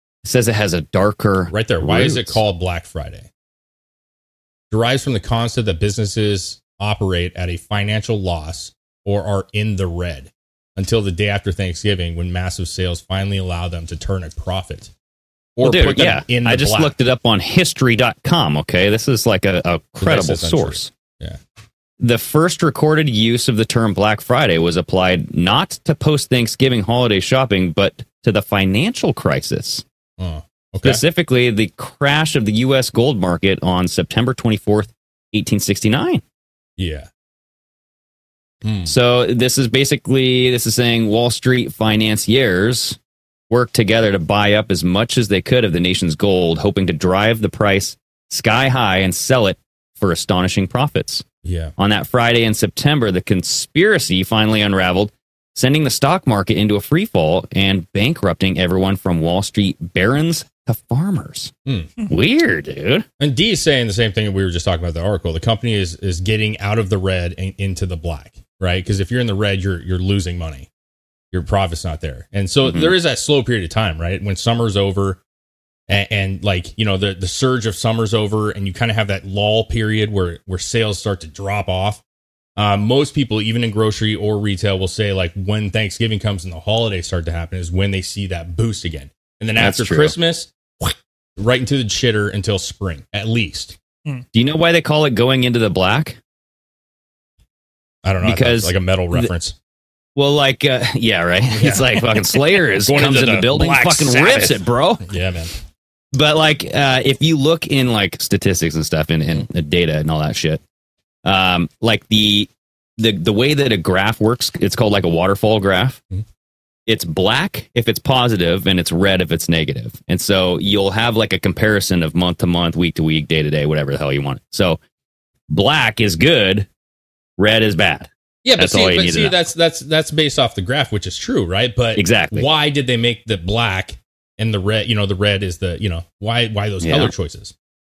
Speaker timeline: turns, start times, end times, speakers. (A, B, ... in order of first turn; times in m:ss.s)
0:00.2-0:02.4 A
0:01.5-0:03.3 B
0:04.7-0:14.9 B
0:15.6-0:16.9 B
0:15.6-0:20.9 A
0:20.0-0:21.4 B
0:22.0-0:29.8 A
0:30.2-0:31.0 B
0:30.8-0:36.2 A
0:36.8-0:37.1 B
0:38.6-0:38.9 B
0:38.8-0:43.0 A
0:43.5-0:51.2 A
0:51.4-0:51.7 B
0:51.8-1:01.5 A
1:01.7-1:01.9 B
1:02.1-1:03.0 A
1:03.2-1:10.7 B
1:11.3-1:15.2 B
1:12.6-1:12.9 A
1:15.9-1:22.0 B
1:22.6-1:33.8 B
1:29.6-1:30.1 A
1:34.3-1:36.2 A
1:38.0-1:39.6 B
1:38.2-1:39.3 A
1:40.2-1:45.0 A
1:41.5-1:45.5 B
1:46.1-1:50.6 A
1:51.2-1:56.0 A
1:56.9-2:04.8 A
2:05.5-2:06.7 A
2:07.4-2:09.4 A
2:08.4-2:17.5 B
2:12.0-2:12.5 A
2:16.8-2:17.1 A